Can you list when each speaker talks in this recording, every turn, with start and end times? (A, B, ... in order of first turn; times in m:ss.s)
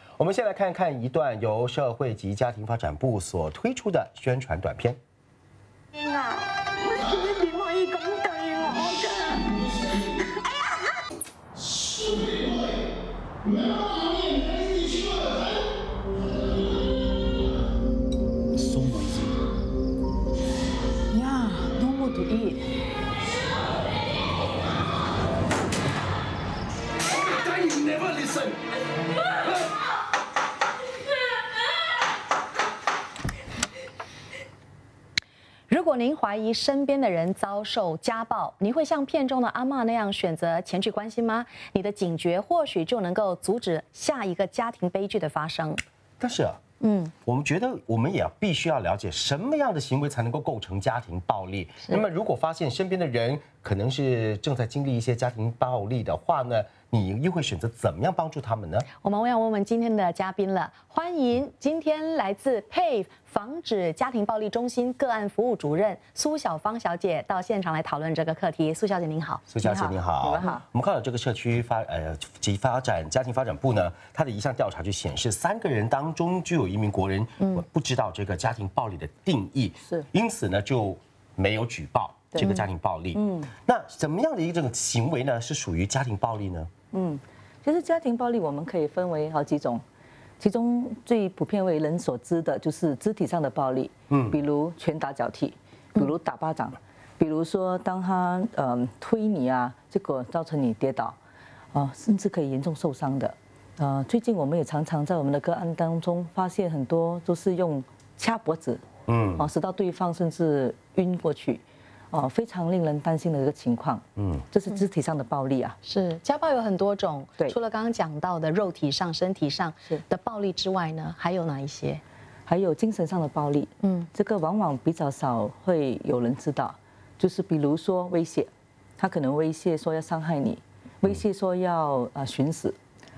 0:00.2-0:05.0 A
0:06.0-0:06.4 B
0:07.0-0:09.5 B
0:07.2-0:09.0 C
0:18.5-0:19.2 A
0:21.1-0:22.6 C
0:35.7-0:45.8 C
0:46.2-0:46.6 A
0:46.8-0:47.1 C
0:47.2-0:58.9 A
0:58.9-1:09.9 C
1:09.5-1:26.7 A
1:09.6-1:10.6 D
1:22.3-1:23.5 D
1:26.9-1:29.8 D
1:30.4-1:41.2 D
1:34.1-1:34.4 A
1:41.7-1:48.8 D
1:49.1-1:49.5 A
1:49.4-1:55.8 D
1:54.2-1:54.4 A
1:55.8-2:02.0 C
2:02.5-2:12.8 D
2:03.8-2:04.1 C